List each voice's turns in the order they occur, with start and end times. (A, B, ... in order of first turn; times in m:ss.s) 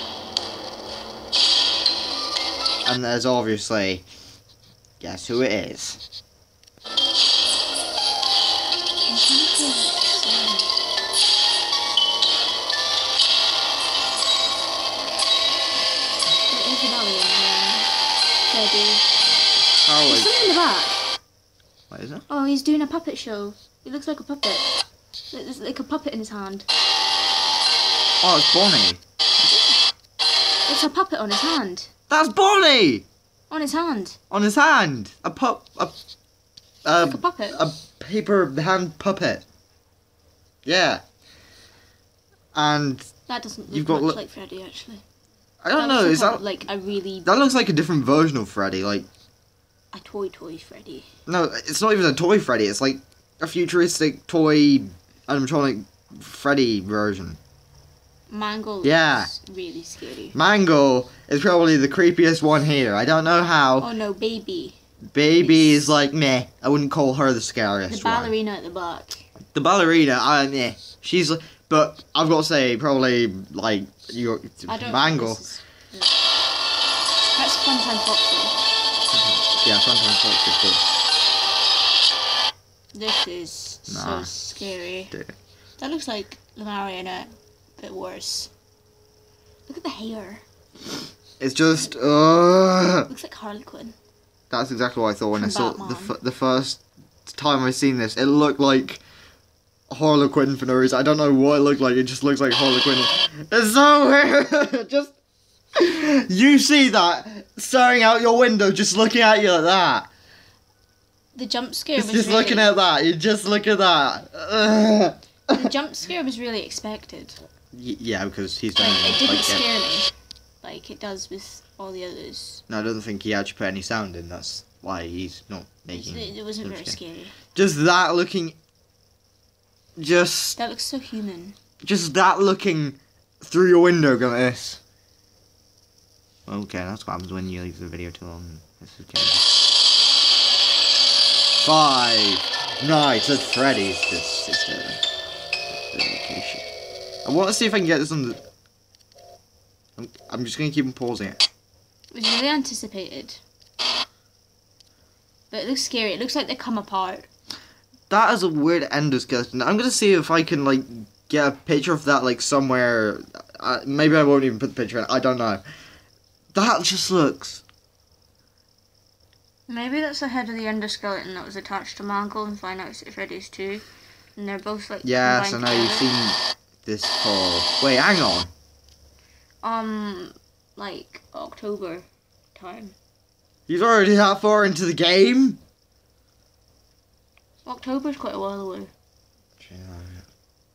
0:02.9-0:04.0 A
0:05.0-0:06.0 A
0:09.1-0:10.7 B
0:16.5-0:17.9 B
0:18.5-0:19.1 B
0:19.7-0:20.5 A
0:20.0-0:21.0 B
0:21.9-0:22.2 A
0:22.3-0:24.6 B
0:25.3-0:26.7 B
0:28.2-0:29.0 A
0:30.7-0:31.9 B
0:32.1-0:33.0 A
0:33.5-0:34.2 B
0:34.3-0:36.0 A
0:36.8-0:39.4 A
0:37.0-0:37.6 B
0:40.6-0:41.0 A
0:42.6-0:43.1 A
0:43.3-0:45.0 B
0:43.7-0:44.2 A
0:45.6-0:46.5 A
0:45.8-0:47.3 B
0:47.2-0:49.1 A
0:49.9-0:51.1 B
0:51.3-0:57.4 A
0:58.3-1:00.3 B
0:58.8-0:59.3 A
1:00.3-1:03.9 A
1:03.8-1:04.8 B
1:05.1-1:08.3 A
1:05.4-1:05.9 B
1:07.9-1:09.2 B
1:09.6-1:15.4 A
1:14.7-1:16.1 B
1:17.3-1:18.6 B
1:19.1-1:20.8 A
1:22.9-1:25.1 B
1:23.9-1:24.3 A
1:25.8-1:28.5 B
1:29.7-1:30.4 B
1:31.4-1:33.1 A
1:33.1-1:34.0 B
1:34.5-1:39.0 A
1:35.3-1:36.2 B
1:39.9-1:45.1 A
1:45.8-1:50.1 A
1:51.3-1:52.7 B
1:52.0-1:55.6 A
1:55.5-1:57.4 B
1:57.7-1:59.6 A
1:58.8-2:02.6 B
2:02.7-2:07.0 A
2:05.9-2:07.3 B
2:07.5-2:08.6 A
2:10.0-2:10.6 A
2:10.6-2:11.6 B
2:11.8-2:14.8 A
2:16.5-2:19.6 A
2:21.6-2:25.0 A
2:25.9-2:26.7 A
2:27.2-2:28.4 A
2:30.0-2:31.4 A
2:32.1-2:33.4 B
2:35.5-2:37.3 B
2:38.1-2:45.6 A
2:46.5-2:47.6 A
2:49.7-2:53.8 B
2:54.4-2:56.2 B
2:55.0-2:58.5 A
2:59.6-3:03.0 B
3:03.7-3:05.6 A
3:07.6-3:08.9 B
3:09.6-3:10.3 A